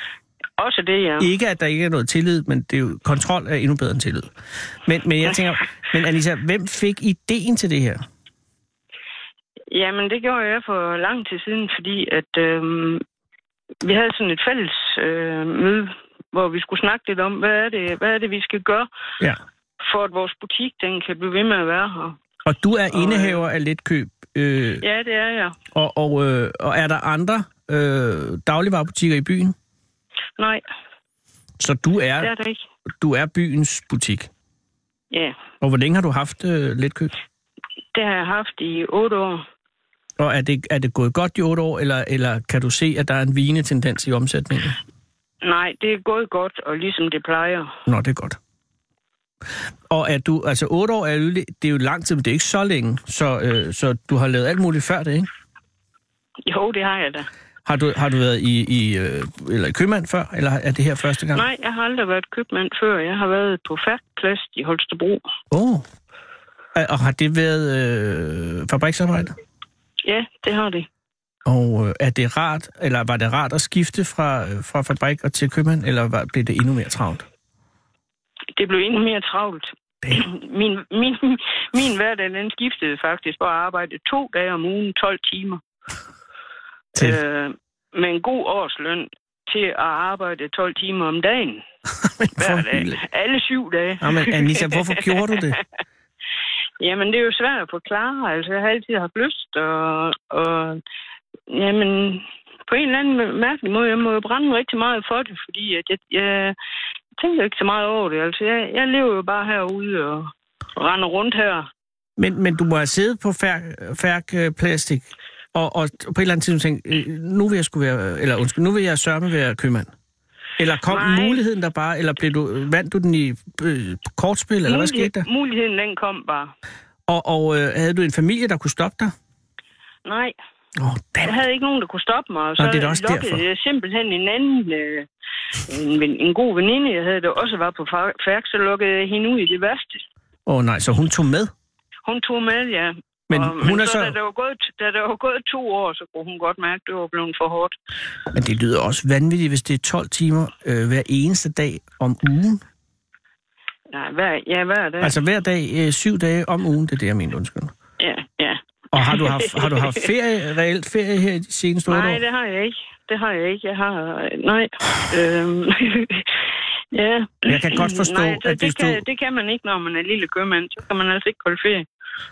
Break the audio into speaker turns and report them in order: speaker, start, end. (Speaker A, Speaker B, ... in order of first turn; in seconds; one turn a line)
Speaker A: 0.6-1.3
Speaker B: 1.2-4.3
Speaker B: 4.8-8.0
Speaker A: 9.7-13.0
Speaker A: 13.8-18.9
Speaker A: 19.8-22.2
Speaker B: 22.4-24.8
Speaker A: 22.9-23.4
Speaker A: 24.8-25.6
Speaker B: 25.7-29.6
Speaker A: 30.4-30.6
Speaker B: 31.6-32.3
Speaker A: 32.2-32.6
Speaker B: 33.0-34.3
Speaker A: 35.1-35.4
Speaker B: 35.6-37.1
Speaker A: 37.9-39.5
Speaker B: 40.2-44.8
Speaker A: 45.4-47.7
Speaker B: 47.9-48.4
Speaker B: 49.9-55.3
Speaker A: 56.5-57.3
Speaker B: 57.6-61.5
Speaker A: 61.3-65.2
Speaker B: 65.5-65.8
Speaker B: 66.8-69.3
Speaker A: 70.0-70.9
Speaker B: 71.5-77.3
Speaker A: 78.6-85.6
Speaker A: 86.9-91.7
Speaker B: 92.0-93.0
Speaker A: 92.4-95.0
Speaker B: 94.0-95.6
Speaker A: 96.8-100.8
Speaker A: 101.5-106.5
Speaker A: 107.2-111.7
Speaker B: 112.2-119.9
Speaker B: 120.6-125.3
Speaker A: 120.9-121.4
Speaker A: 124.7-126.5
Speaker B: 127.1-129.1
Speaker A: 130.1-130.4
Speaker B: 130.8-131.3
Speaker A: 131.2-135.1
Speaker B: 132.6-133.4
Speaker A: 135.6-140.0
Speaker B: 140.5-141.5
Speaker A: 142.1-147.7
Speaker B: 143.3-144.2
Speaker B: 148.3-152.6
Speaker A: 153.9-155.2
Speaker B: 155.0-157.7
Speaker A: 158.0-160.1
Speaker B: 158.9-162.2
Speaker A: 161.9-166.4
Speaker A: 166.9-171.9
Speaker B: 167.5-169.0